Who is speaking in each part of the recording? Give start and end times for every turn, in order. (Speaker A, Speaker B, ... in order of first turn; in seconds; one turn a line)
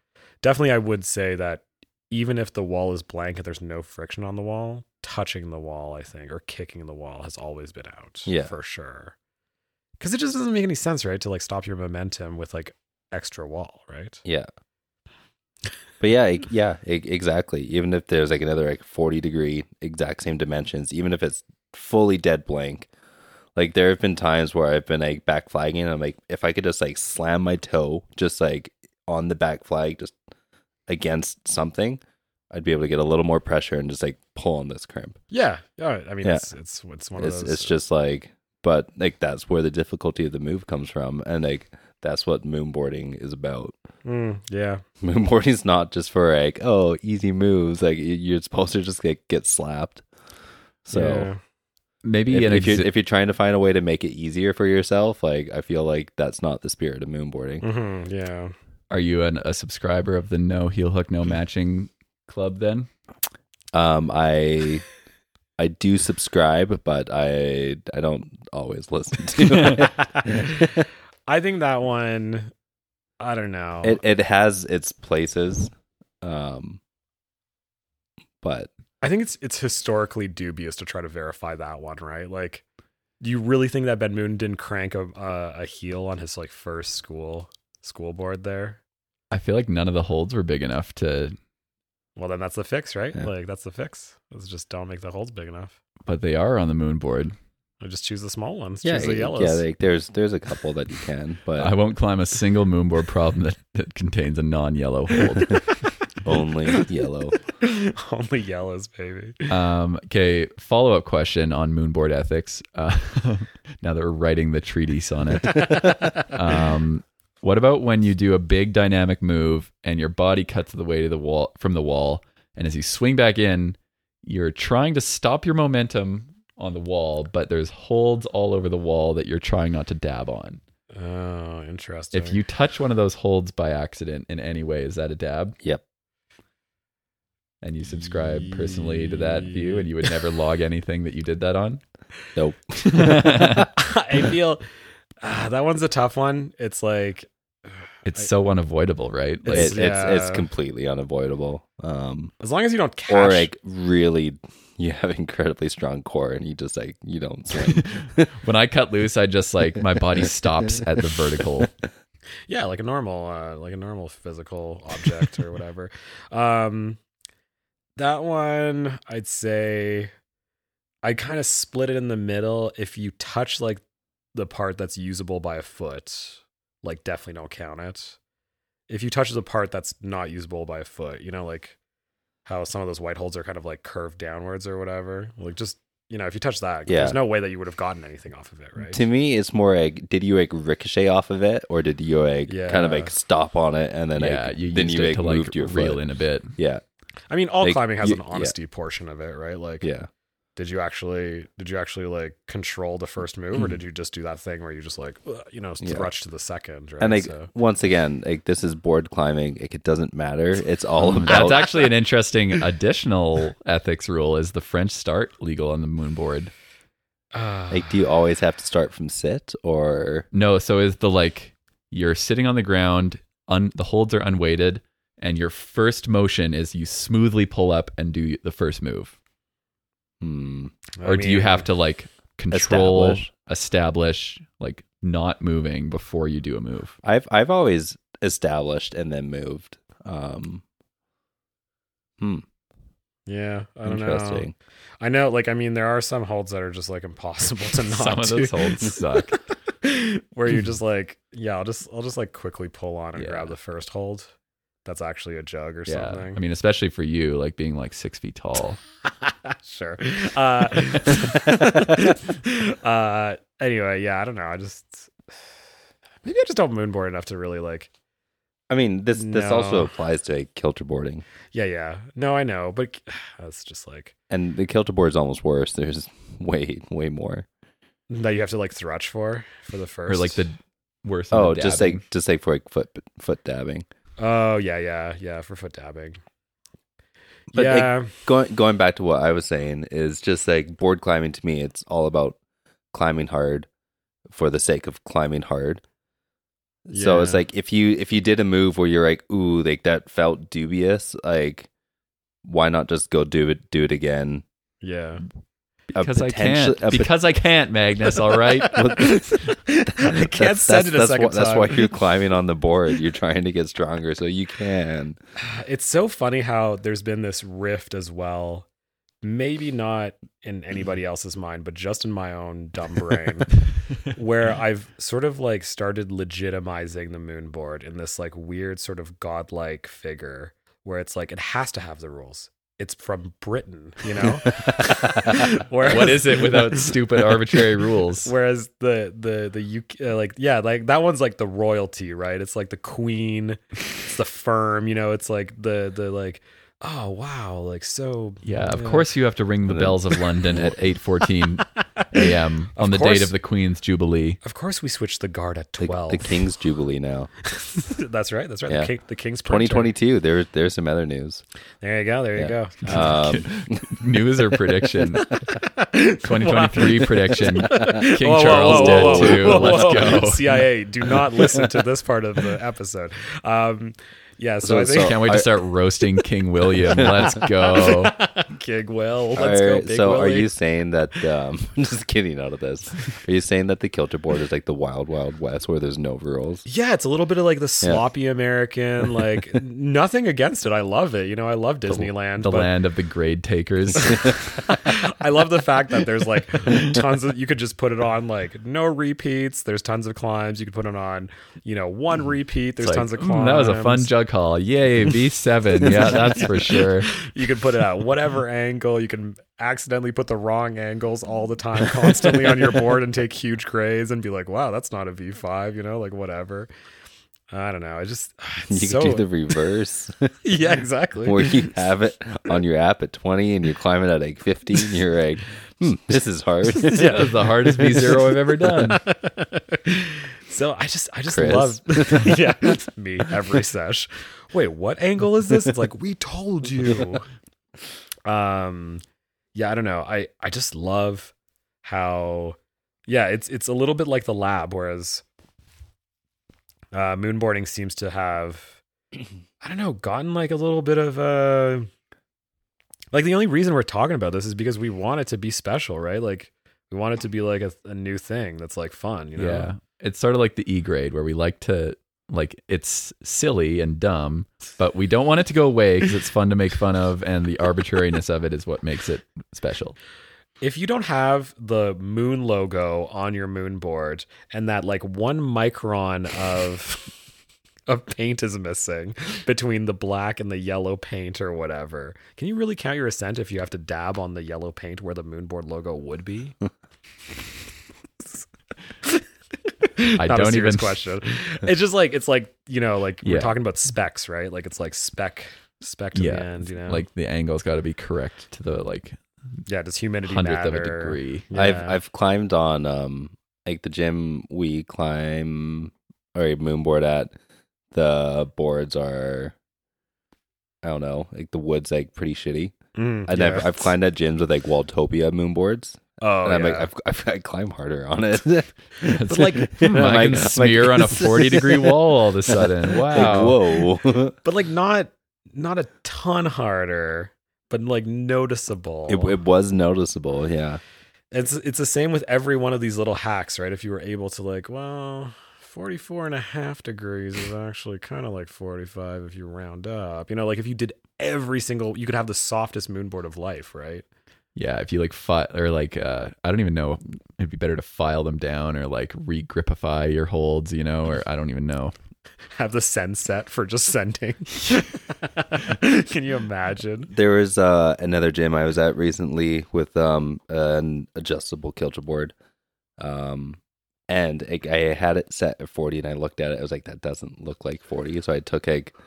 Speaker A: 0.4-9.2
Speaker B: 8.3-8.5
Speaker A: 10.0-14.2
Speaker B: 14.2-14.5
Speaker B: 16.0-22.9
Speaker B: 23.6-30.2
Speaker B: 30.9-35.2
Speaker A: 35.3-37.7
Speaker B: 37.2-43.7
Speaker A: 44.0-44.8
Speaker B: 45.0-50.0
Speaker B: 50.9-51.3
Speaker A: 50.9-51.4
Speaker C: 52.0-52.9
Speaker B: 52.3-57.6
Speaker A: 57.6-58.5
Speaker C: 58.9-62.9
Speaker B: 63.7-64.8
Speaker B: 65.6-70.8
Speaker A: 70.2-70.6
Speaker A: 71.3-72.5
Speaker A: 73.2-74.0
Speaker B: 73.8-75.7
Speaker B: 76.2-76.8
Speaker B: 78.4-78.7
Speaker A: 79.0-82.6
Speaker A: 83.2-88.8
Speaker C: 89.3-91.3
Speaker A: 92.2-95.8
Speaker C: 96.1-97.4
Speaker A: 97.8-99.6
Speaker B: 98.8-101.7
Speaker C: 101.6-105.6
Speaker B: 106.2-107.4
Speaker A: 107.6-109.5
Speaker C: 109.5-130.6
Speaker A: 130.9-132.4
Speaker C: 132.1-135.6
Speaker C: 137.6-141.8
Speaker A: 138.4-139.9
Speaker B: 142.4-143.6
Speaker C: 142.9-143.7
Speaker A: 143.8-144.6
Speaker A: 145.2-147.3
Speaker C: 148.1-149.8
Speaker A: 149.4-150.4
Speaker B: 149.5-152.3
Speaker A: 152.4-153.5
Speaker B: 153.1-158.3
Speaker C: 157.6-161.7
Speaker B: 160.2-160.8
Speaker A: 162.5-167.0
Speaker A: 168.0-170.1
Speaker A: 171.0-173.8
Speaker A: 174.3-178.2
Speaker A: 178.9-181.8
Speaker A: 182.4-189.0
Speaker B: 186.9-187.2
Speaker B: 188.8-196.0
Speaker A: 192.5-193.1
Speaker C: 194.2-196.5
Speaker B: 196.6-196.8
Speaker A: 197.3-199.9
Speaker B: 197.6-198.5
Speaker B: 199.8-200.1
Speaker A: 200.6-207.5
Speaker B: 205.8-206.1
Speaker B: 207.0-211.7
Speaker C: 211.0-216.5
Speaker A: 217.3-218.0
Speaker B: 217.7-220.3
Speaker C: 220.3-229.1
Speaker B: 230.2-230.8
Speaker A: 231.0-231.7
Speaker C: 231.0-237.0
Speaker B: 232.5-233.3
Speaker B: 237.0-240.6
Speaker A: 243.3-244.5
Speaker B: 243.8-244.5
Speaker A: 245.0-249.0
Speaker C: 247.9-249.4
Speaker A: 249.8-254.3
Speaker C: 253.2-253.5
Speaker A: 254.8-256.4
Speaker C: 255.9-258.8
Speaker A: 259.2-265.1
Speaker A: 266.2-267.9
Speaker B: 268.7-271.2
Speaker A: 269.1-269.9
Speaker A: 271.5-274.1
Speaker B: 274.3-277.5
Speaker A: 278.1-280.5
Speaker C: 280.1-282.0
Speaker B: 281.3-283.9
Speaker A: 284.2-286.2
Speaker A: 287.5-288.1
Speaker B: 287.5-292.4
Speaker B: 292.9-293.7
Speaker B: 294.3-295.8
Speaker B: 296.9-301.7
Speaker A: 296.9-297.4
Speaker B: 302.4-304.4
Speaker A: 304.8-305.2
Speaker C: 305.9-309.1
Speaker B: 305.9-307.1
Speaker B: 308.6-315.2
Speaker A: 309.7-311.9
Speaker A: 315.4-318.6
Speaker A: 319.2-337.0
Speaker C: 335.8-338.3
Speaker A: 338.2-349.1
Speaker C: 348.4-354.4
Speaker B: 349.7-350.8
Speaker A: 352.8-353.4
Speaker A: 354.4-356.3
Speaker B: 355.8-357.3
Speaker A: 357.5-359.9
Speaker B: 359.4-361.4
Speaker A: 361.8-363.1
Speaker B: 362.4-364.0
Speaker C: 362.8-365.3
Speaker A: 365.2-375.2
Speaker C: 366.2-370.6
Speaker B: 368.5-370.2
Speaker B: 374.6-375.5
Speaker C: 375.0-378.1
Speaker B: 376.9-377.3
Speaker A: 377.4-380.5
Speaker B: 379.4-386.6
Speaker A: 386.7-392.7
Speaker C: 391.9-394.4
Speaker A: 394.6-404.1
Speaker C: 402.8-407.1
Speaker A: 405.8-416.7
Speaker A: 417.5-419.3
Speaker B: 418.7-420.4
Speaker A: 420.4-421.6
Speaker B: 421.2-427.3
Speaker A: 426.8-437.2
Speaker C: 426.9-429.0
Speaker B: 431.3-432.8
Speaker A: 438.2-439.0
Speaker A: 439.6-441.3
Speaker A: 441.8-445.2
Speaker A: 446.9-448.8
Speaker A: 449.6-451.9
Speaker A: 453.1-459.7
Speaker C: 459.4-470.0
Speaker A: 470.6-477.1
Speaker A: 477.9-486.6
Speaker A: 490.0-497.1
Speaker C: 490.2-491.0
Speaker C: 493.2-493.6
Speaker C: 496.1-499.2
Speaker A: 499.7-502.0
Speaker C: 500.2-501.5
Speaker B: 501.6-507.3
Speaker B: 507.9-509.5
Speaker B: 510.8-522.0
Speaker A: 513.0-513.9
Speaker A: 516.2-516.9
Speaker C: 519.1-523.6
Speaker B: 522.5-524.4
Speaker A: 524.4-529.4
Speaker B: 529.1-530.8
Speaker A: 531.3-544.0
Speaker C: 544.5-552.0
Speaker A: 552.5-557.1
Speaker B: 557.1-562.3
Speaker B: 563.0-563.6
Speaker B: 564.1-569.0